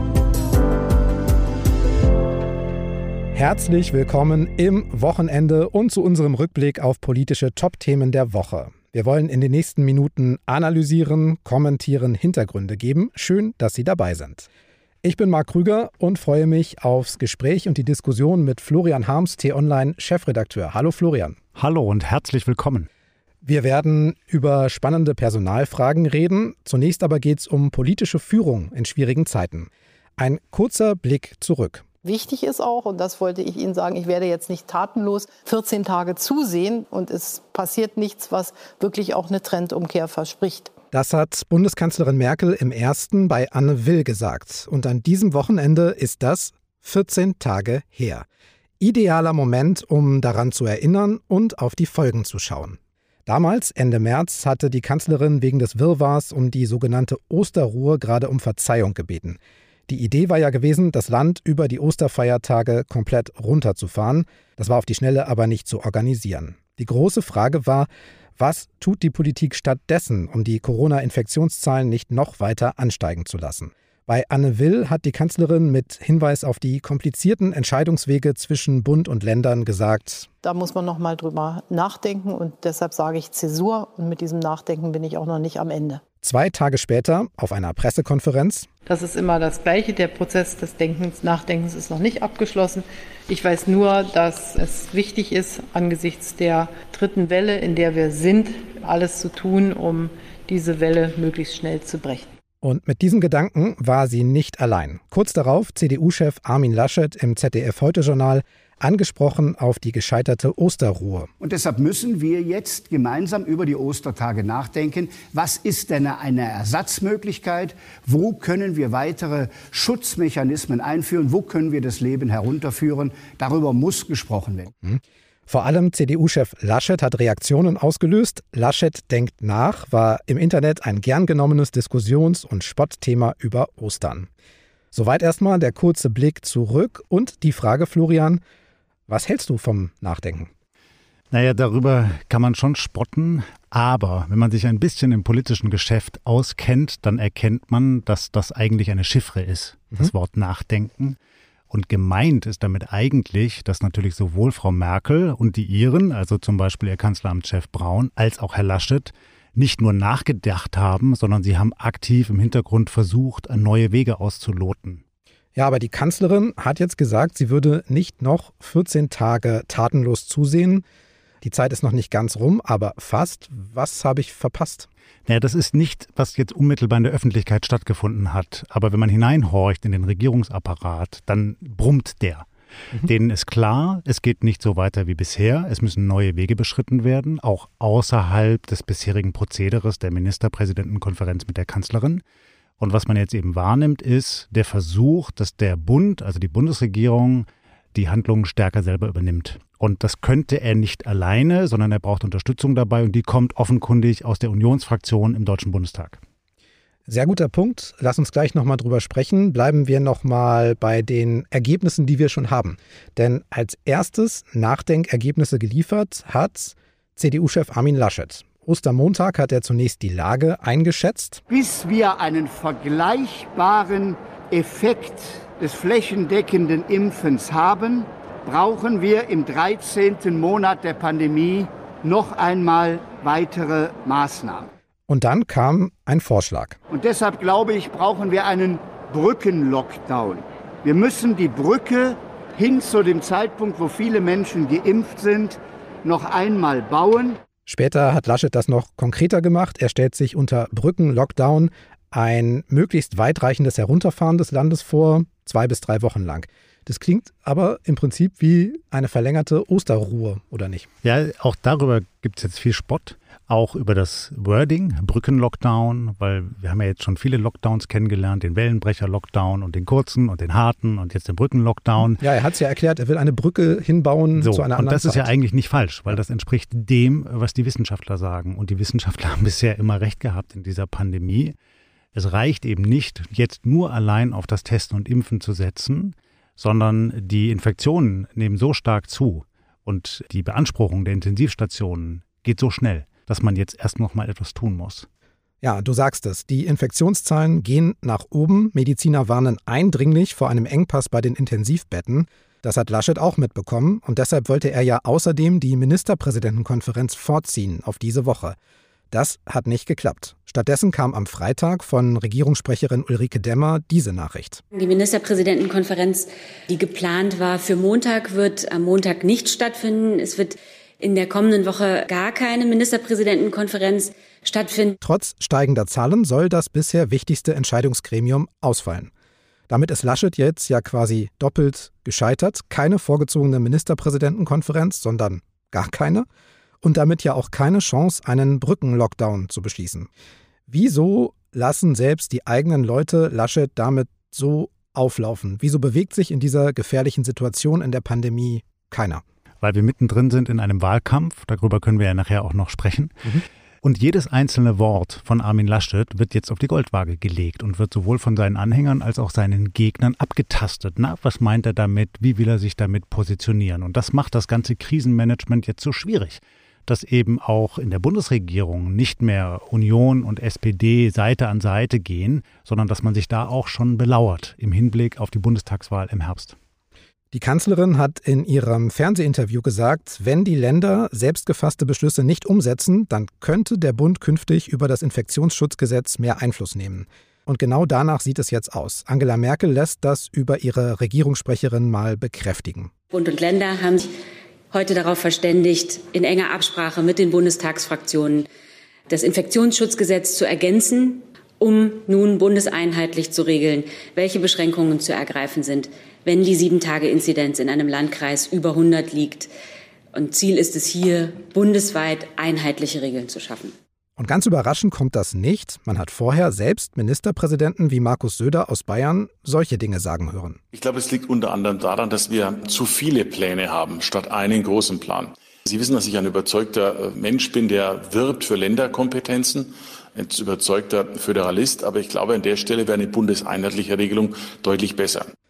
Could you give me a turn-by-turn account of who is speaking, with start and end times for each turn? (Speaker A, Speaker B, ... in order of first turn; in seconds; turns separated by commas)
Speaker A: 3.3-14.5, Speaker A: 15.0-21.4, Speaker B: 21.6-22.9, Speaker A: 23.4-31.9, Speaker C: 32.0-40.7, Speaker A: 40.9-48.3, Speaker A: 48.8-80.3, Speaker C: 80.4-86.0, Speaker A: 86.2-88.7, Speaker C: 88.9-102.3, Speaker A: 102.6-111.3, Speaker D: 111.4-124.7, Speaker A: 124.8-134.3, Speaker A: 134.9-138.4, Speaker A: 139.1-140.5, Speaker B: 141.3-151.2, Speaker B: 151.7-165.0, Speaker A: 165.6-170.8, Speaker A: 171.4-174.9, Speaker B: 175.3-192.2, Speaker B: 192.8-206.2, Speaker A: 207.1-221.4, Speaker D: 221.5-234.7, Speaker A: 235.1-236.8, Speaker D: 236.9-247.4, Speaker A: 247.7-260.9, Speaker B: 261.0-272.2, Speaker A: 272.0-275.3, Speaker B: 274.4-281.6, Speaker B: 282.1-295.1, Speaker A: 295.6-308.6, Speaker A: 309.1-314.6, Speaker E: 314.7-325.0, Speaker A: 325.0-329.1, Speaker A: 329.7-336.3, Speaker A: 336.8-340.1, Speaker A: 340.7-349.2, Speaker B: 349.6-353.3, Speaker B: 353.8-376.6, Speaker A: 377.3-392.9, Speaker E: 393.1-394.1, Speaker E: 394.7-398.5, Speaker E: 399.1-409.5, Speaker E: 410.1-413.7, Speaker A: 414.2-420.6, Speaker F: 420.7-435.3